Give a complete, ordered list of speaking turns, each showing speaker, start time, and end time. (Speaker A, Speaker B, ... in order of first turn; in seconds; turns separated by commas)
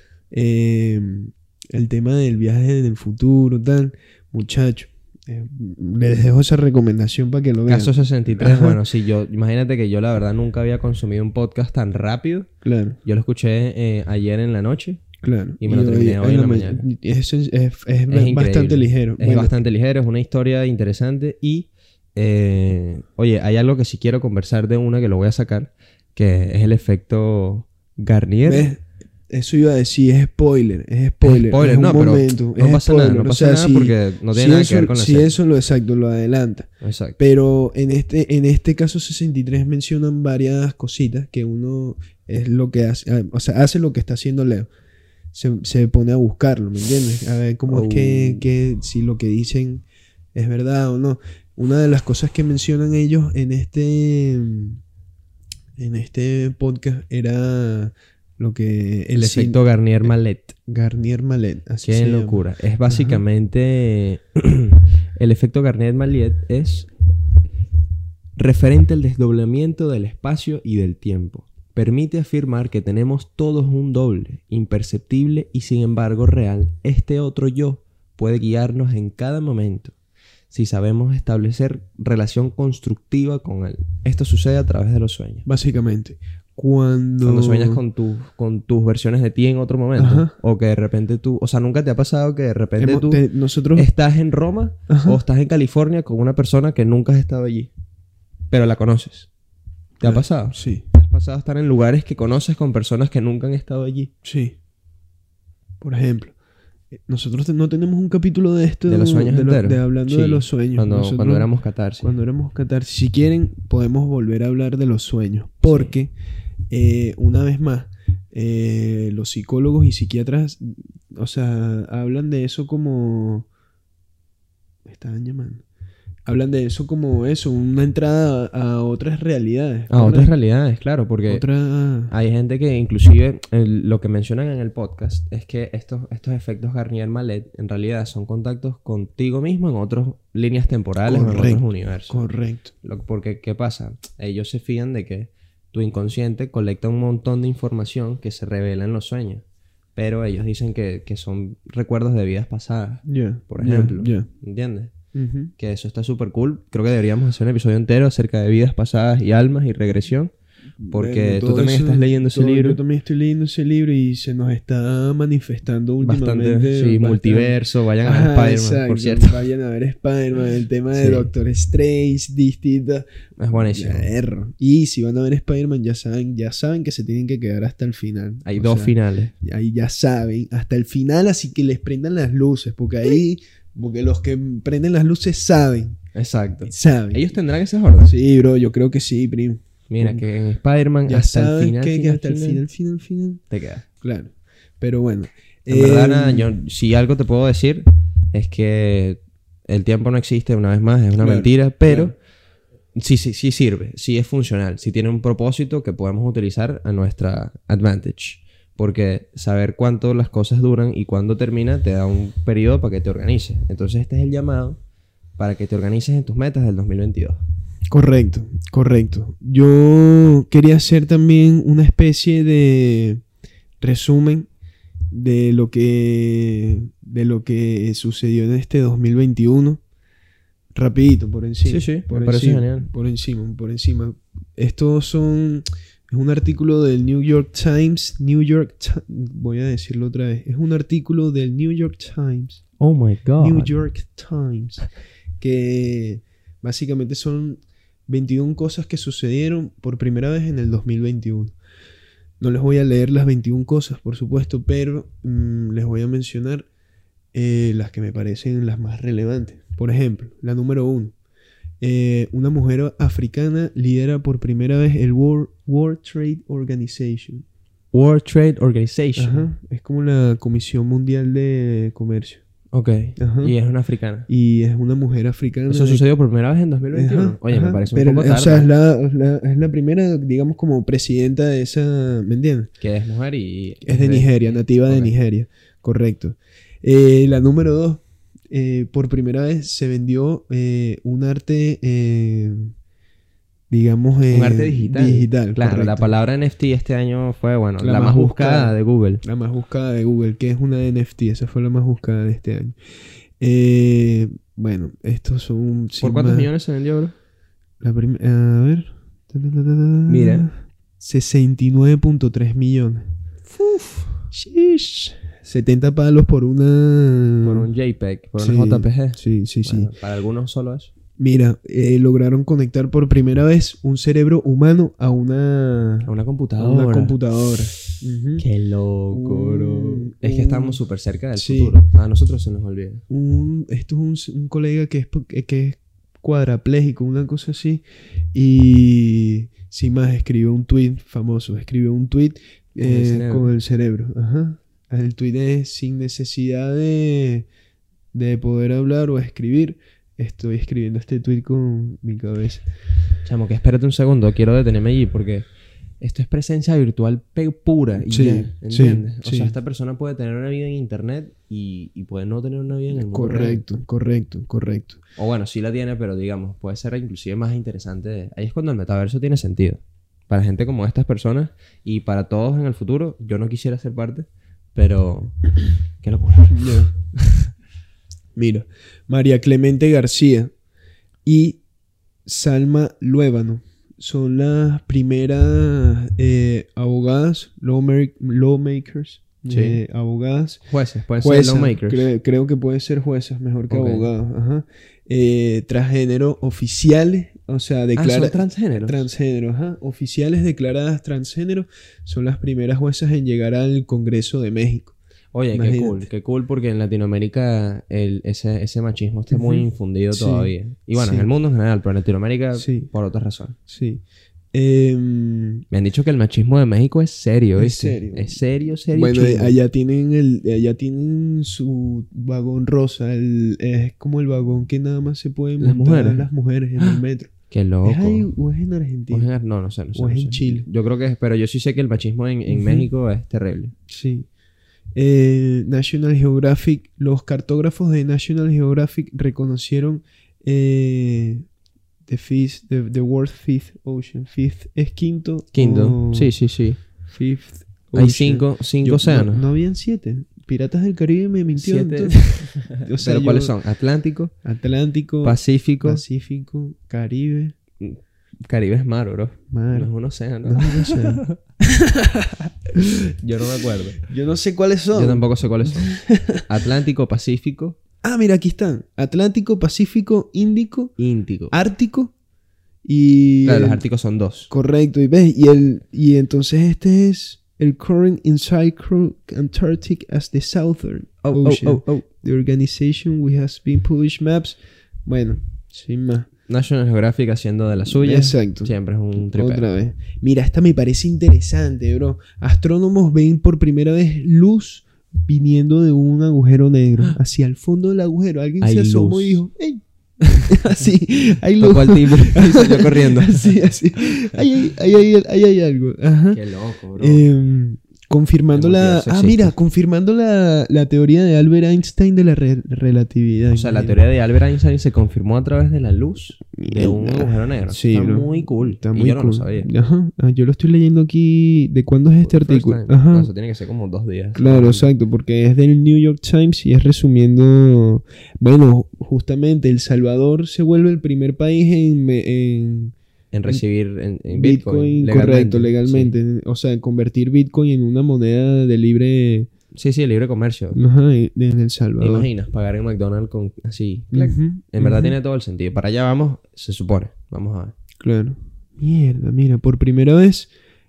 Speaker A: 0.3-8.8, Speaker B: 7.7-12.5, Speaker A: 12.6-13.0, Speaker B: 13.0-15.0, Speaker A: 15.2-19.5, Speaker B: 15.6-16.8, Speaker B: 18.1-28.7, Speaker A: 28.4-44.7, Speaker B: 31.2-35.3, Speaker B: 36.8-37.2, Speaker A: 45.3-49.8, Speaker B: 47.7-48.5, Speaker A: 50.4-54.8, Speaker A: 55.8-63.2, Speaker B: 59.2-60.5, Speaker B: 61.8-66.9, Speaker B: 68.4-79.9, Speaker B: 80.5-85.5, Speaker A: 85.5-87.8, Speaker B: 87.2-97.7, Speaker A: 90.0-90.3, Speaker A: 92.8-93.9, Speaker A: 94.9-95.2, Speaker B: 98.5-99.3, Speaker A: 100.0-100.8, Speaker B: 100.0-104.1, Speaker A: 104.2-104.6, Speaker A: 105.8-106.3, Speaker A: 107.1-111.5, Speaker B: 108.9-112.1, Speaker A: 112.0-116.1, Speaker B: 115.6-115.9, Speaker A: 116.7-123.5, Speaker A: 124.9-125.6, Speaker A: 126.3-130.3, Speaker B: 129.9-131.4, Speaker A: 131.3-132.1, Speaker B: 132.1-142.2, Speaker A: 141.1-142.7, Speaker B: 142.8-149.4, Speaker B: 150.0-154.9, Speaker A: 153.1-154.3, Speaker A: 155.1-155.5, Speaker B: 155.6-160.3, Speaker A: 160.8-186.0, Speaker B: 160.9-162.8, Speaker B: 166.0-169.4, Speaker B: 170.9-171.3, Speaker B: 173.4-174.1, Speaker B: 178.4-179.3, Speaker B: 186.1-188.1, Speaker A: 186.6-187.3, Speaker A: 188.0-190.2, Speaker B: 189.9-192.6, Speaker A: 191.1-193.4, Speaker B: 193.5-193.8, Speaker A: 194.0-196.5, Speaker B: 195.7-202.2, Speaker A: 201.2-202.1, Speaker B: 202.9-214.8, Speaker B: 215.4-217.4, Speaker A: 217.9-223.2, Speaker A: 223.8-224.5, Speaker A: 225.1-229.8, Speaker A: 230.7-242.6, Speaker B: 231.7-232.9, Speaker B: 242.8-243.7, Speaker A: 243.4-244.9, Speaker A: 245.4-251.6, Speaker A: 252.4-256.7, Speaker A: 257.3-261.1, Speaker A: 261.8-267.4, Speaker B: 267.9-269.5, Speaker A: 269.2-272.4, Speaker B: 272.7-274.3, Speaker A: 273.2-273.6, Speaker A: 274.3-276.0, Speaker B: 275.7-278.7, Speaker A: 276.9-282.7, Speaker B: 282.8-285.1, Speaker A: 283.9-292.7, Speaker A: 293.7-296.1, Speaker B: 294.3-299.2, Speaker A: 297.8-302.8, Speaker A: 303.4-306.5, Speaker B: 306.0-307.1, Speaker A: 307.8-313.1, Speaker B: 310.1-310.5, Speaker B: 313.5-314.3, Speaker A: 314.3-317.7, Speaker B: 317.4-320.9, Speaker A: 318.4-319.9, Speaker A: 321.2-328.4, Speaker B: 326.1-327.2, Speaker B: 328.4-333.0, Speaker A: 329.1-330.8, Speaker A: 331.4-331.8, Speaker A: 333.1-337.8, Speaker A: 338.3-347.5, Speaker B: 342.8-343.5, Speaker A: 348.1-352.7, Speaker B: 353.2-355.5, Speaker B: 356.0-363.6, Speaker A: 358.0-359.5, Speaker A: 363.0-365.0, Speaker B: 365.2-377.0, Speaker A: 376.5-376.9, Speaker A: 378.4-380.5, Speaker A: 381.2-381.6, Speaker A: 382.3-390.6, Speaker B: 389.5-389.8, Speaker B: 390.7-392.1, Speaker A: 391.2-404.9, Speaker B: 393.7-394.1, Speaker B: 398.0-399.0, Speaker B: 405.3-413.6, Speaker A: 405.5-406.1, Speaker A: 409.3-411.3, Speaker A: 412.6-412.9, Speaker A: 413.7-414.0, Speaker A: 414.5-415.6, Speaker B: 415.7-419.6, Speaker A: 417.6-427.3, Speaker B: 425.6-428.3, Speaker A: 427.8-429.3, Speaker B: 429.1-433.7, Speaker A: 429.9-430.7, Speaker A: 432.5-432.9, Speaker A: 433.9-434.3, Speaker A: 434.9-441.5, Speaker A: 442.1-446.3, Speaker B: 445.5-446.8, Speaker A: 447.1-453.6, Speaker B: 447.9-449.4, Speaker B: 451.6-454.3, Speaker A: 454.4-457.6, Speaker B: 455.2-456.0, Speaker B: 457.8-461.4, Speaker A: 459.5-459.9, Speaker A: 460.4-462.9, Speaker B: 463.2-464.0, Speaker A: 464.0-466.4, Speaker B: 464.9-467.8, Speaker A: 468.0-470.9, Speaker B: 471.0-471.5, Speaker A: 471.5-472.1, Speaker A: 472.9-473.8, Speaker B: 473.5-474.5, Speaker A: 474.5-486.3, Speaker B: 481.2-482.1, Speaker B: 486.5-489.7, Speaker A: 487.9-499.8, Speaker B: 498.6-499.5, Speaker A: 500.4-506.4, Speaker B: 501.6-503.5, Speaker B: 506.3-507.2, Speaker A: 507.0-514.0, Speaker B: 508.5-509.5, Speaker B: 513.5-519.7, Speaker A: 516.6-523.3, Speaker B: 522.2-524.9, Speaker A: 524.4-533.0, Speaker B: 533.3-536.1, Speaker A: 534.3-539.5, Speaker B: 539.7-540.8, Speaker A: 540.7-542.3, Speaker B: 542.0-547.7, Speaker A: 544.1-545.2, Speaker A: 548.0-550.5